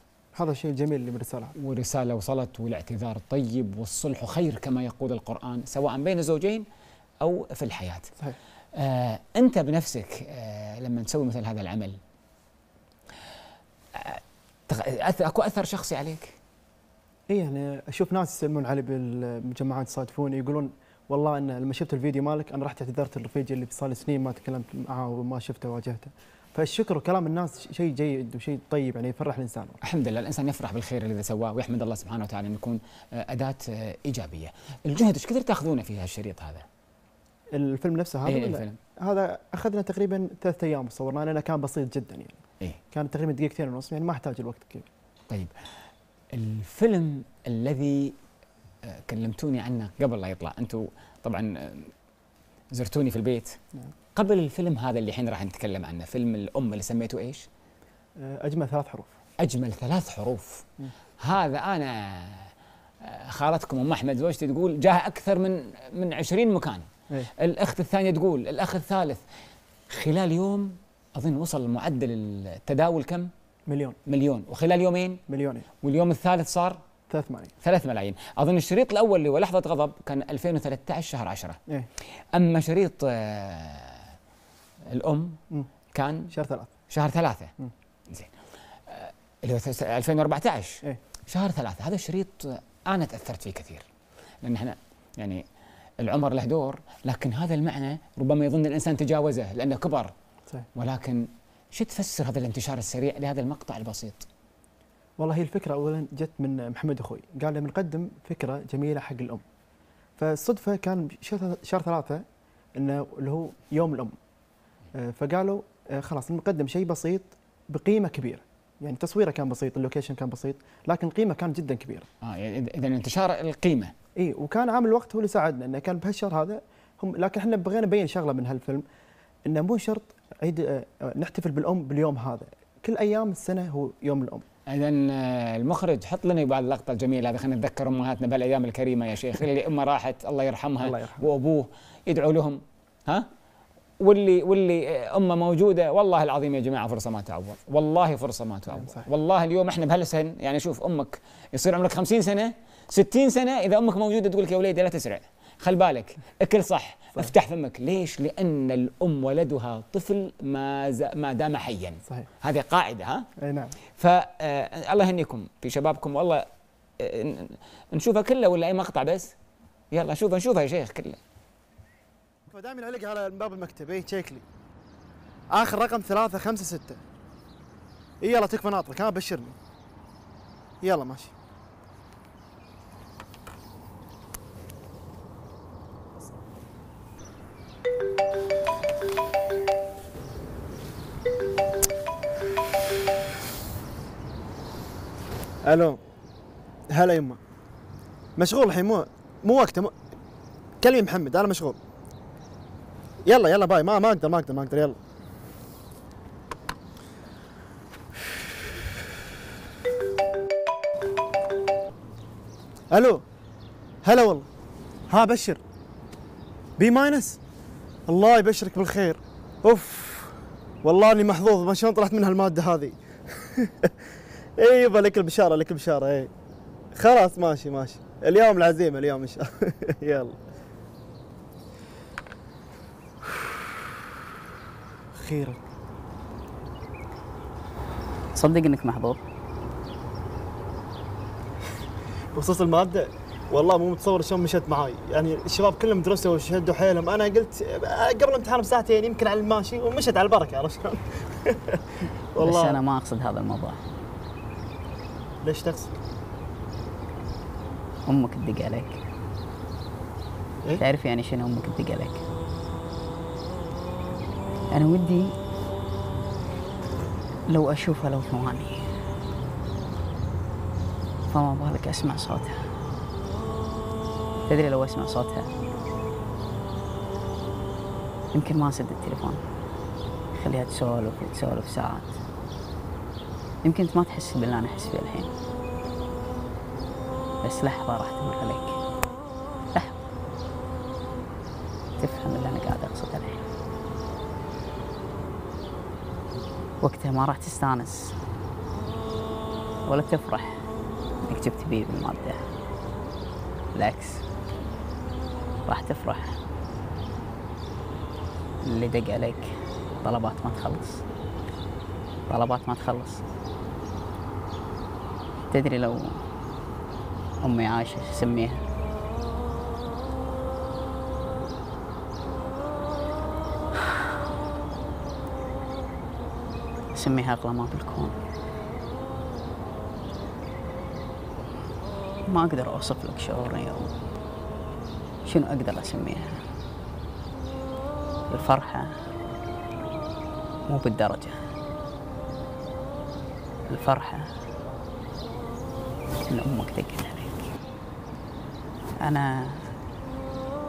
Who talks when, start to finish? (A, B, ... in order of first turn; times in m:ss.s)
0:00.3-0:01.6 A
0:01.6-0:06.7 B
0:07.2-0:08.1 B
0:08.8-0:12.0 B
0:14.0-0:16.4 B
0:17.3-0:29.8 A
0:29.8-0:36.7 B
0:37.5-0:42.4 A
0:38.3-0:38.8 B
0:42.9-0:44.9 A
0:46.3-0:48.2 B
0:48.8-0:51.9 B
0:52.7-0:53.6 B
0:54.2-0:57.5 B
0:58.2-0:59.1 A
0:59.4-1:00.7 B
1:01.2-1:02.5 B
1:03.0-1:06.9 B
1:07.4-1:09.2 B
1:09.9-1:13.3 B
1:13.7-1:14.0 A
1:14.1-1:15.2 B
1:15.3-1:15.7 A
1:15.8-1:16.8 B
1:17.1-1:17.5 A
1:17.6-1:21.6 B
1:22.3-1:24.1 B
1:24.9-1:25.4 B
1:25.9-1:26.3 B
1:26.3-1:26.7 A
1:26.9-1:27.5 B
1:28.9-1:33.8 B
1:34.4-1:35.4 B
1:36.0-1:40.1 B
1:40.8-1:44.3 B
1:45.2-1:49.4 A
1:50.2-1:54.2 A
1:54.9-2:02.1 A
2:02.2-2:03.9 B
2:04.2-2:08.8 A
2:09.5-2:14.4 A
2:14.7-2:23.3 B
2:20.8-2:21.2 A
2:24.0-2:43.3 B
2:28.8-2:29.0 A
2:43.4-2:43.8 A
2:44.0-2:46.5 B
2:47.0-2:49.3 B
2:49.9-2:51.2 B
2:52.5-2:54.4 A
2:55.5-2:57.0 A
2:58.2-2:59.6 A
3:00.8-3:01.3 A
3:15.6-3:16.0 A
3:16.9-3:17.4 A
3:18.4-3:19.9 A
3:20.8-3:21.8 A
3:23.2-3:25.0 A
3:32.9-3:33.2 A
3:34.0-3:34.5 A
3:35.1-3:35.6 A
3:36.8-3:37.4 A
3:38.1-3:43.9 A
3:44.6-3:46.3 A
3:46.9-3:50.4 A
3:53.3-3:53.5 A
3:55.1-3:55.6 A
3:58.3-3:59.2 C
4:02.3-4:12.8 A
4:12.4-4:13.8 C
4:15.4-4:15.9 A
4:18.1-4:19.0 C
4:20.8-4:22.2 C
4:24.7-4:25.3 C
4:27.5-4:28.8 C
4:31.3-4:32.7 C
4:34.5-4:35.5 C
4:38.3-4:39.4 C
4:40.4-4:42.2 C
4:43.6-4:45.3 C
4:47.4-4:48.8 C
4:52.0-4:53.4 C
4:56.8-4:58.2 C
4:59.8-5:00.6 C
5:01.2-5:02.4 C
5:03.8-5:04.2 C
5:05.7-5:06.4 C
5:08.6-5:11.0 C
5:12.3-5:13.2 C
5:15.5-5:16.3 C
5:17.4-5:18.6 C
5:26.9-5:28.2 C
5:32.3-5:33.9 C
5:35.3-5:36.4 C
5:38.3-5:39.0 C
5:40.7-5:41.4 C
5:43.7-5:44.3 C
5:46.3-5:47.5 C
5:49.0-5:49.7 C